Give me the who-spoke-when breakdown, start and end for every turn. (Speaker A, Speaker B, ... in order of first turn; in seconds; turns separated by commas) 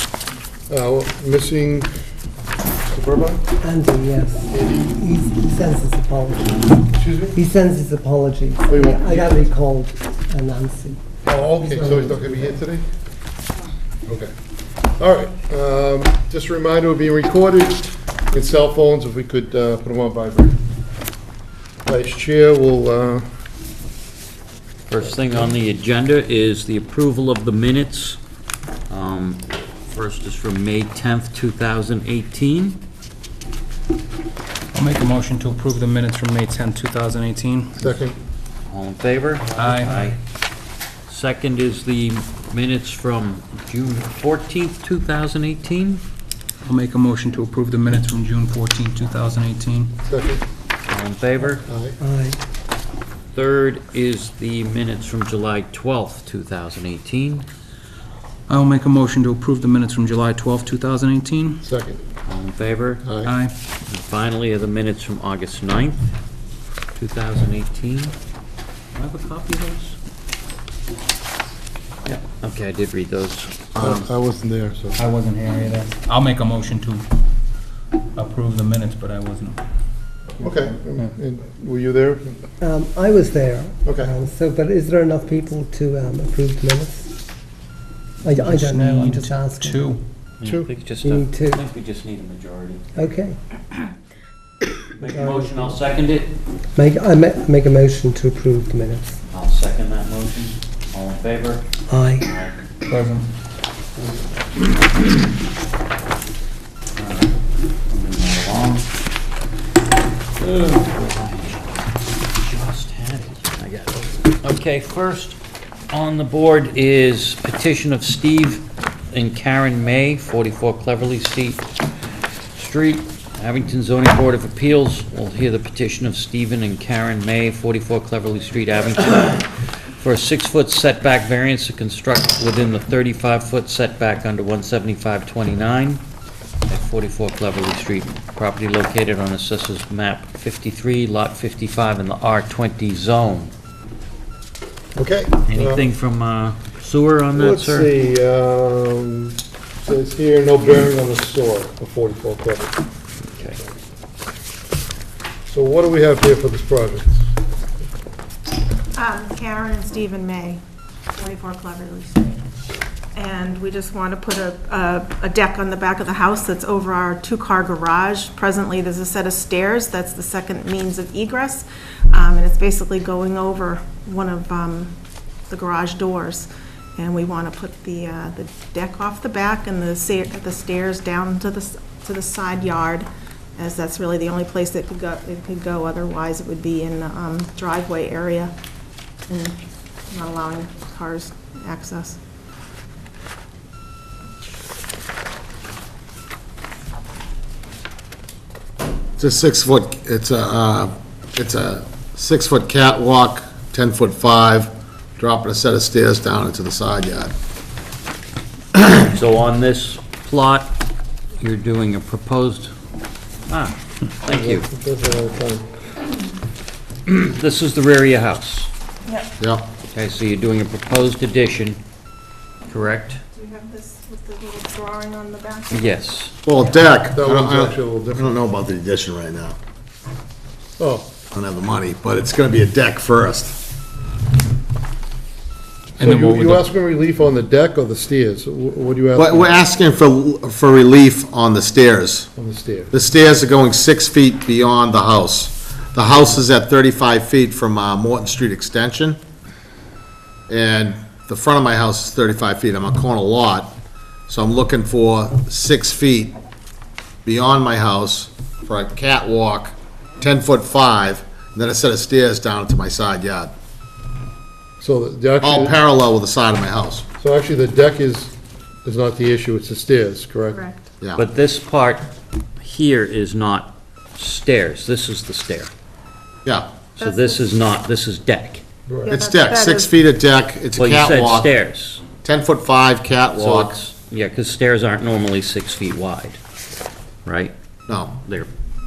Speaker A: 0.7-1.9, Speaker A: 2.9-3.5, Speaker B: 3.6-6.8, Speaker A: 4.5-5.0, Speaker A: 6.9-7.4, Speaker B: 7.3-11.0, Speaker A: 8.7-9.4, Speaker A: 11.2-12.9, Speaker B: 11.6-12.6, Speaker A: 14.1-14.3, Speaker A: 15.0-20.6, Speaker A: 21.9-23.3, Speaker C: 24.9-28.2, Speaker C: 28.9-32.8, Speaker D: 34.7-38.0, Speaker A: 37.8-38.2, Speaker C: 38.7-40.2, Speaker D: 39.5-40.2, Speaker C: 41.1-46.0, Speaker D: 46.6-50.0, Speaker A: 50.0-50.5, Speaker C: 50.9-51.6, Speaker A: 51.7-52.0, Speaker B: 52.0-52.4, Speaker C: 53.4-57.5, Speaker D: 58.5-61.6, Speaker A: 61.6-62.0, Speaker C: 62.3-63.0, Speaker A: 63.0-63.3, Speaker D: 63.2-63.5, Speaker C: 63.9-66.1, Speaker C: 67.0-68.2, Speaker C: 69.0-70.0, Speaker C: 72.0-74.1, Speaker A: 73.8-75.0, Speaker D: 75.0-77.1, Speaker D: 78.2-79.6, Speaker A: 80.4-82.4, Speaker B: 82.6-87.1, Speaker A: 83.8-84.1, Speaker B: 88.2-90.0, Speaker D: 88.3-90.0, Speaker C: 90.4-92.8, Speaker A: 90.4-90.7, Speaker B: 91.0-91.6, Speaker B: 93.0-93.4, Speaker C: 94.9-96.3, Speaker B: 95.1-95.8, Speaker B: 96.8-99.2, Speaker C: 99.3-101.7, Speaker B: 101.9-102.3, Speaker C: 102.2-102.6, Speaker D: 102.9-103.3, Speaker C: 107.0-107.3, Speaker C: 107.9-108.9, Speaker C: 110.4-111.8, Speaker C: 112.4-115.4, Speaker C: 115.9-121.7, Speaker C: 122.5-136.0, Speaker C: 136.7-143.5, Speaker A: 144.9-145.9, Speaker C: 145.4-147.9, Speaker A: 147.3-152.8, Speaker C: 153.3-153.6, Speaker A: 155.5-157.3, Speaker E: 158.9-160.6, Speaker E: 161.2-162.4, Speaker E: 163.2-174.9, Speaker E: 175.5-188.5, Speaker E: 189.3-189.5, Speaker E: 190.1-192.2, Speaker F: 199.2-207.3, Speaker C: 208.8-210.8, Speaker C: 211.4-212.7, Speaker C: 213.5-214.7, Speaker A: 214.3-215.7, Speaker C: 217.1-218.7, Speaker F: 219.4-219.7, Speaker C: 219.9-221.8, Speaker C: 222.7-223.2, Speaker E: 223.3-225.9, Speaker C: 225.7-226.4, Speaker F: 226.4-229.6, Speaker A: 227.1-228.4, Speaker A: 230.8-231.2, Speaker F: 231.3-233.6, Speaker A: 236.0-239.6, Speaker D: 236.0-236.6, Speaker F: 239.2-242.3, Speaker A: 242.4-242.9, Speaker F: 242.9-249.2, Speaker F: 250.5-253.8, Speaker F: 254.3-256.4, Speaker F: 257.2-263.5, Speaker A: 264.8-265.8, Speaker F: 265.4-267.1, Speaker A: 267.2-270.6, Speaker E: 270.5-270.8, Speaker C: 271.2-272.1, Speaker C: 272.6-275.7, Speaker F: 276.4-276.7, Speaker C: 277.0-278.6, Speaker E: 277.0-277.5, Speaker A: 278.9-279.2, Speaker E: 279.0-279.9, Speaker F: 279.1-281.5, Speaker C: 280.8-282.0, Speaker F: 282.2-283.8, Speaker C: 283.4-286.4, Speaker C: 287.2-287.5, Speaker F: 287.9-288.2, Speaker C: 288.2-288.5